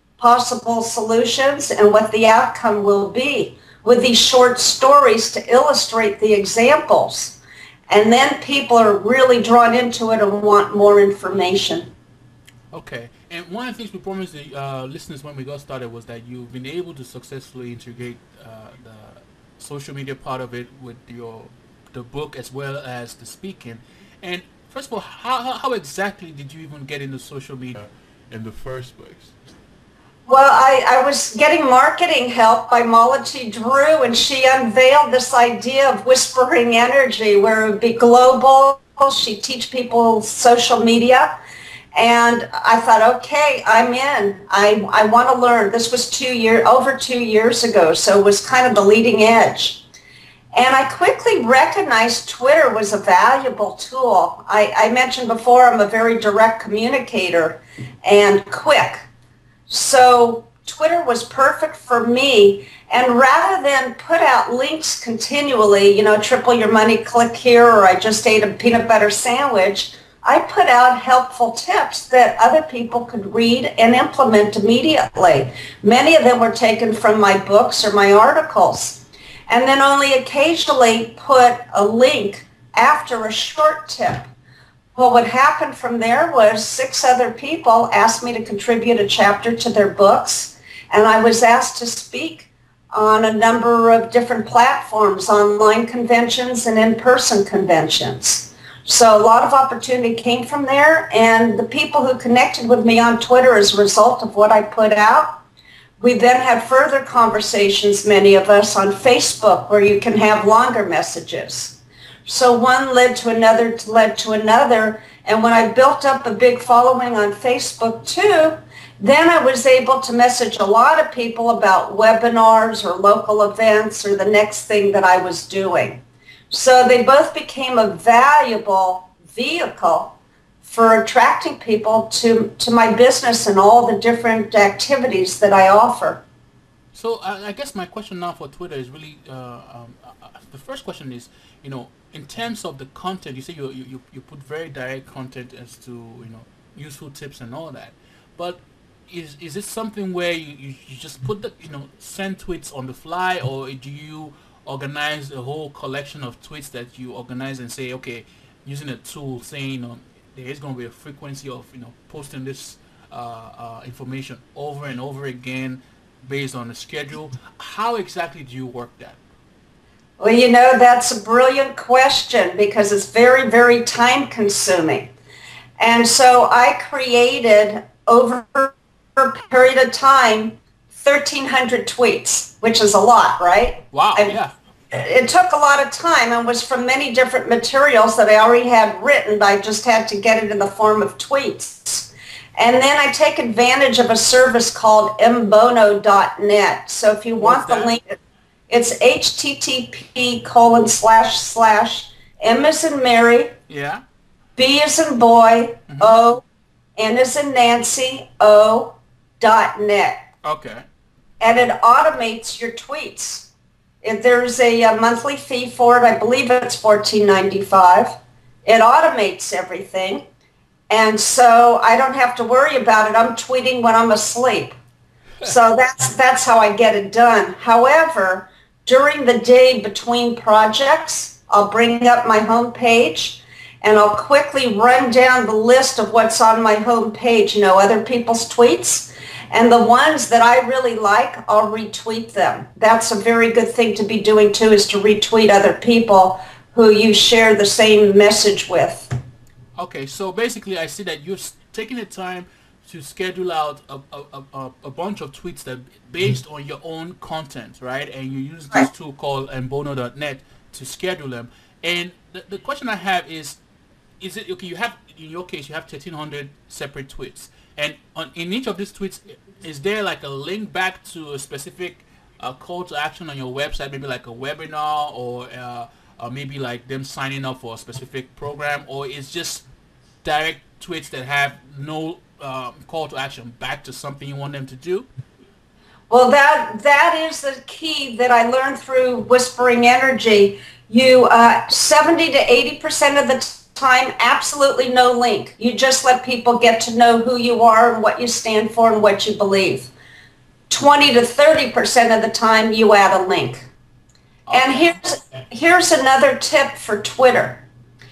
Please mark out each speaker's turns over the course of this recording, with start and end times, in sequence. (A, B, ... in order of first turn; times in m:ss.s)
0:00.2-0:07.4 A
0:07.9-0:11.9 A
0:12.7-0:29.3 B
0:30.3-0:41.4 A
0:41.9-0:49.8 A
0:50.5-0:59.1 A
0:59.7-1:24.3 A
1:25.0-1:45.4 A
1:46.0-2:16.2 A
2:16.9-2:49.2 B
2:50.2-2:55.1 A
2:55.8-3:04.4 A
3:03.9-3:04.5 B
3:04.9-3:18.2 A
3:17.4-3:18.0 B
3:18.7-3:23.5 A
3:23.7-3:24.0 B
3:24.6-3:26.4 A
3:25.9-3:26.2 B
3:27.0-3:30.2 A
3:30.4-3:30.8 B
3:31.4-3:33.5 A
3:34.0-3:40.2 A
3:40.9-3:44.7 A
3:45.4-4:09.1 A
4:09.8-4:23.6 B
4:24.2-4:39.6 B
4:40.2-4:45.1 B
4:46.1-4:59.9 A
5:00.7-5:03.7 A
5:04.4-5:05.0 B
5:04.5-5:07.6 A